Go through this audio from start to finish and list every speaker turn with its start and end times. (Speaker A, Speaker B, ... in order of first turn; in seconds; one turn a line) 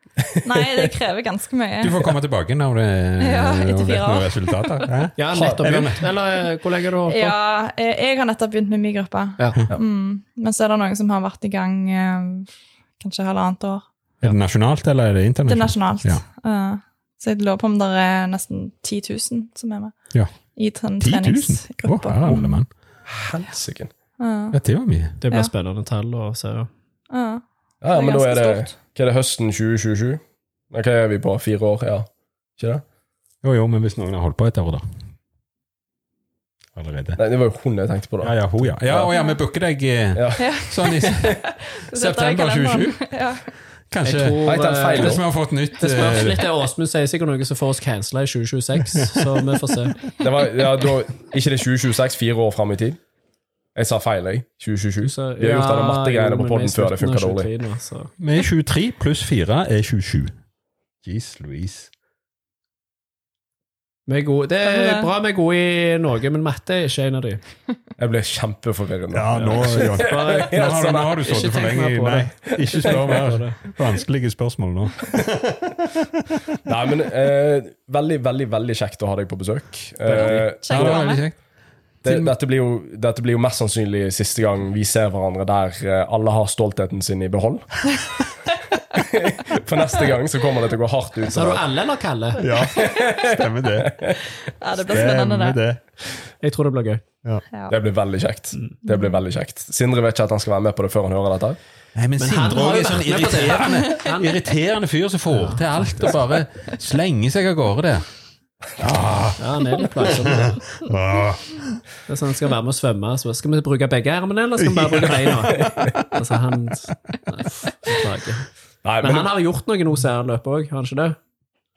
Speaker A: 0.2-0.9
Speaker B: 0.4-2.0
Speaker C: 1.8-6.1
Speaker B: 3.2-4.9
Speaker D: 5.2-7.3
Speaker A: 5.3-5.6
Speaker B: 7.1-13.8
Speaker C: 14.2-16.2
Speaker B: 15.5-19.9
Speaker B: 20.5-22.6
Speaker C: 21.0-22.7
Speaker A: 23.1-23.9
Speaker B: 24.2-24.6
Speaker C: 24.5-25.2
Speaker D: 25.2-26.7
Speaker B: 27.1-28.7
Speaker A: 27.8-32.8
Speaker C: 33.4-34.8
Speaker C: 36.8-37.2
Speaker A: 37.1-39.1
Speaker C: 38.2-43.0
Speaker B: 39.1-39.4
Speaker A: 40.1-40.4
Speaker B: 40.4-43.5
Speaker C: 43.9-44.4
Speaker D: 44.0-45.2
Speaker A: 44.4-45.2
Speaker C: 44.9-46.5
Speaker D: 45.8-50.1
Speaker A: 50.2-53.0
Speaker A: 53.7-57.5
Speaker D: 55.0-58.1
Speaker C: 58.2-60.3
Speaker C: 61.0-61.9
Speaker D: 64.1-67.4
Speaker B: 64.6-65.1
Speaker A: 68.0-71.5
Speaker C: 69.1-76.2
Speaker D: 69.3-73.6
Speaker A: 72.7-73.1
Speaker A: 76.6-81.1
Speaker C: 80.2-81.3
Speaker B: 80.2-81.2
Speaker A: 82.0-87.8
Speaker C: 82.0-82.3
Speaker A: 88.9-91.6
Speaker D: 91.2-92.5
Speaker C: 92.4-94.0
Speaker A: 92.7-94.2
Speaker B: 94.6-95.6
Speaker C: 94.8-95.8
Speaker D: 96.4-97.0
Speaker A: 97.7-101.6
Speaker C: 101.9-108.0
Speaker D: 102.2-104.4
Speaker D: 105.3-106.1
Speaker C: 108.8-111.8
Speaker D: 109.4-110.6
Speaker D: 112.1-118.5
Speaker C: 114.6-116.0
Speaker A: 115.5-115.9
Speaker A: 118.8-119.3
Speaker D: 119.0-121.2